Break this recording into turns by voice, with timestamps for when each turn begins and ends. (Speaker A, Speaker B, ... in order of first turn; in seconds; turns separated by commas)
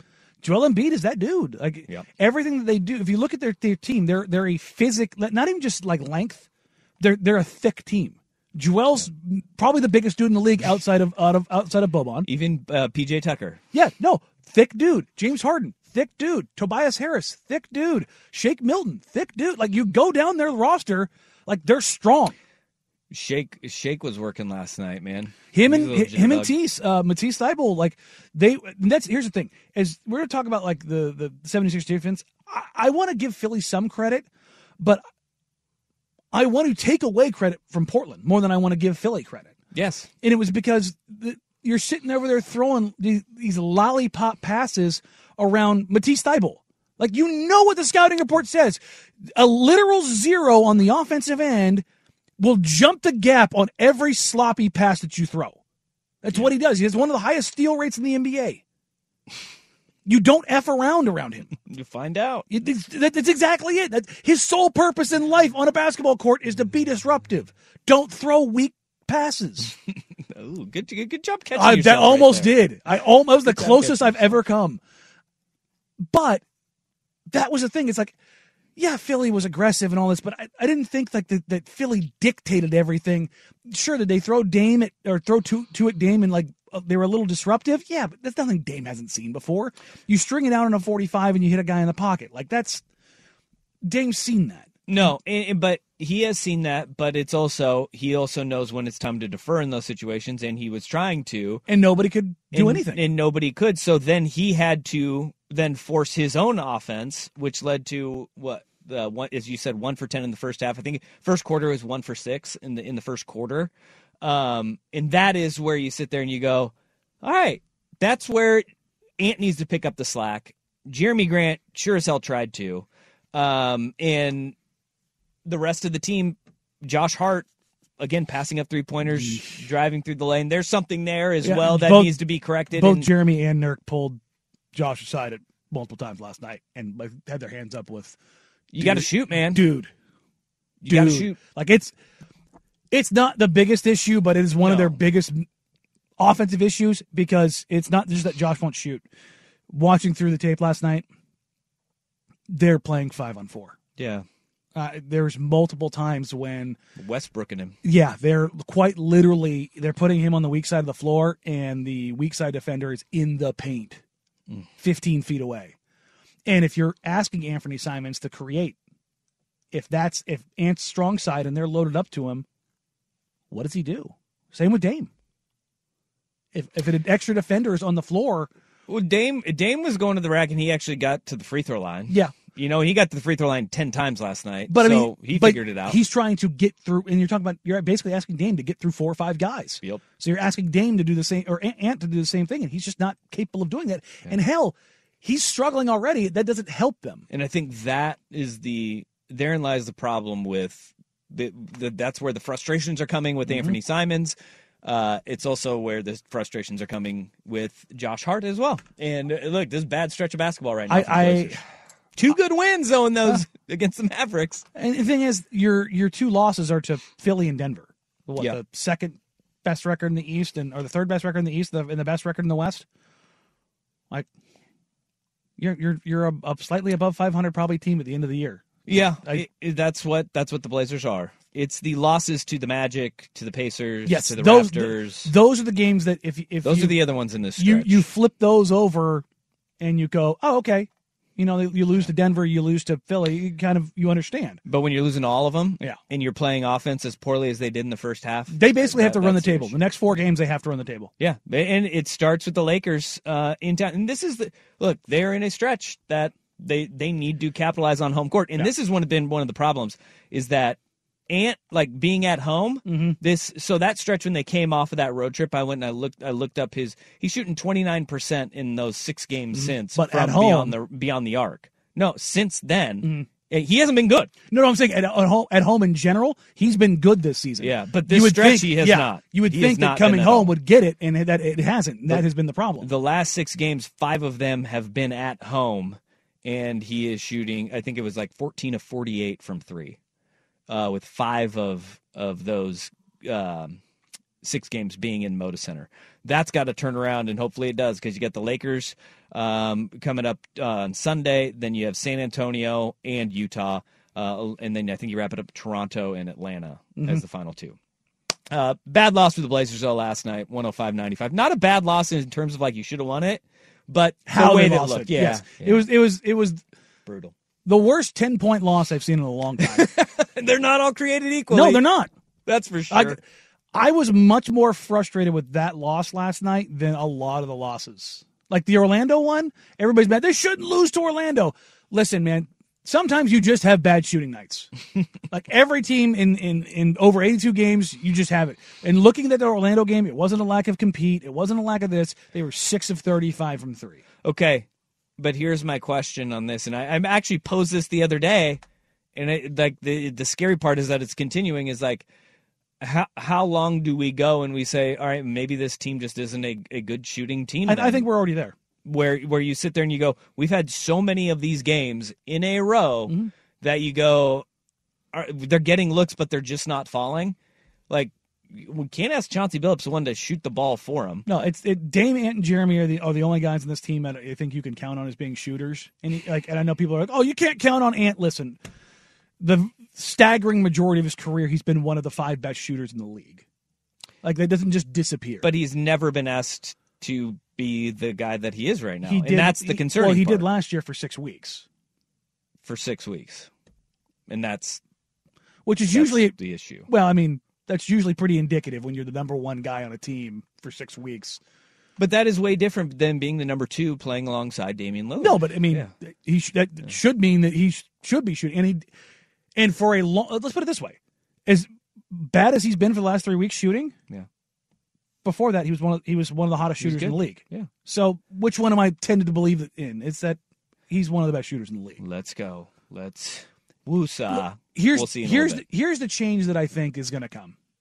Speaker A: 0.4-6.4, Speaker A: 7.0-12.3, Speaker B: 12.2-13.6, Speaker A: 13.7-22.3, Speaker B: 23.1-26.5, Speaker A: 25.5-34.2, Speaker A: 36.3-39.5, Speaker B: 39.7-40.1, Speaker A: 40.2-48.8, Speaker A: 49.3-51.8, Speaker A: 52.4-55.6, Speaker A: 56.2-58.6, Speaker A: 60.0-61.5, Speaker B: 61.7-62.5, Speaker A: 62.5-69.7, Speaker B: 70.3-72.6, Speaker A: 71.5-74.8, Speaker B: 73.4-74.4, Speaker A: 76.0-76.4, Speaker A: 77.3-78.1, Speaker A: 78.8-92.8, Speaker A: 93.8-95.1, Speaker B: 94.9-101.6, Speaker A: 101.7-103.0, Speaker B: 102.5-118.6, Speaker B: 119.2-124.5, Speaker B: 125.4-127.5, Speaker B: 128.0-133.1, Speaker A: 129.1-129.6, Speaker A: 131.4-132.1, Speaker A: 132.7-134.2, Speaker A: 134.7-138.2, Speaker B: 138.7-139.7, Speaker A: 138.8-139.9, Speaker B: 140.8-141.4, Speaker A: 140.9-141.9, Speaker A: 142.9-145.5, Speaker B: 144.6-145.0, Speaker A: 146.2-149.0, Speaker A: 149.7-151.0, Speaker A: 152.5-153.8, Speaker B: 154.0-154.2, Speaker A: 154.7-156.8, Speaker B: 157.0-157.8, Speaker A: 157.8-164.0, Speaker A: 164.8-165.7, Speaker A: 166.4-168.8, Speaker A: 169.7-172.4, Speaker A: 173.5-175.1, Speaker A: 176.5-178.5, Speaker B: 178.9-186.0, Speaker A: 182.1-182.3, Speaker A: 184.7-197.2, Speaker B: 197.3-211.6, Speaker A: 203.5-203.8, Speaker A: 210.9-211.6, Speaker B: 212.2-214.7, Speaker A: 214.8-222.8, Speaker A: 225.6-228.7, Speaker B: 228.8-235.3, Speaker A: 234.1-237.0, Speaker B: 236.6-238.0, Speaker A: 237.6-239.2, Speaker A: 239.8-244.6, Speaker B: 244.7-249.8, Speaker A: 248.5-251.1, Speaker B: 251.2-260.8, Speaker B: 261.3-274.3, Speaker A: 262.9-263.2, Speaker A: 269.5-270.7, Speaker A: 274.5-282.9, Speaker B: 277.6-280.5, Speaker B: 282.8-290.0, Speaker B: 290.7-293.8, Speaker B: 294.4-307.8, Speaker A: 307.0-307.2, Speaker B: 308.5-315.9, Speaker A: 314.3-316.6, Speaker B: 317.1-317.3, Speaker A: 317.6-319.9, Speaker B: 319.6-321.9, Speaker A: 321.5-322.1, Speaker B: 322.4-323.2, Speaker A: 322.9-323.2, Speaker A: 323.7-334.7, Speaker A: 335.3-344.0, Speaker B: 344.2-344.6, Speaker B: 345.2-348.6, Speaker B: 349.1-352.1, Speaker B: 352.8-358.1, Speaker A: 357.6-358.5, Speaker B: 358.8-364.4, Speaker B: 365.1-367.4, Speaker B: 367.9-371.2, Speaker A: 371.2-378.6, Speaker A: 379.4-383.4, Speaker A: 384.2-385.5, Speaker B: 385.4-390.5, Speaker A: 389.1-391.6, Speaker B: 392.6-393.5, Speaker B: 394.3-394.8, Speaker A: 395.6-396.3, Speaker B: 395.9-396.9, Speaker A: 396.9-401.4, Speaker B: 402.0-405.9, Speaker A: 405.2-408.9, Speaker A: 409.6-413.9, Speaker A: 415.2-420.4, Speaker B: 416.8-417.7, Speaker A: 420.9-422.0, Speaker B: 422.0-425.6, Speaker A: 424.3-427.5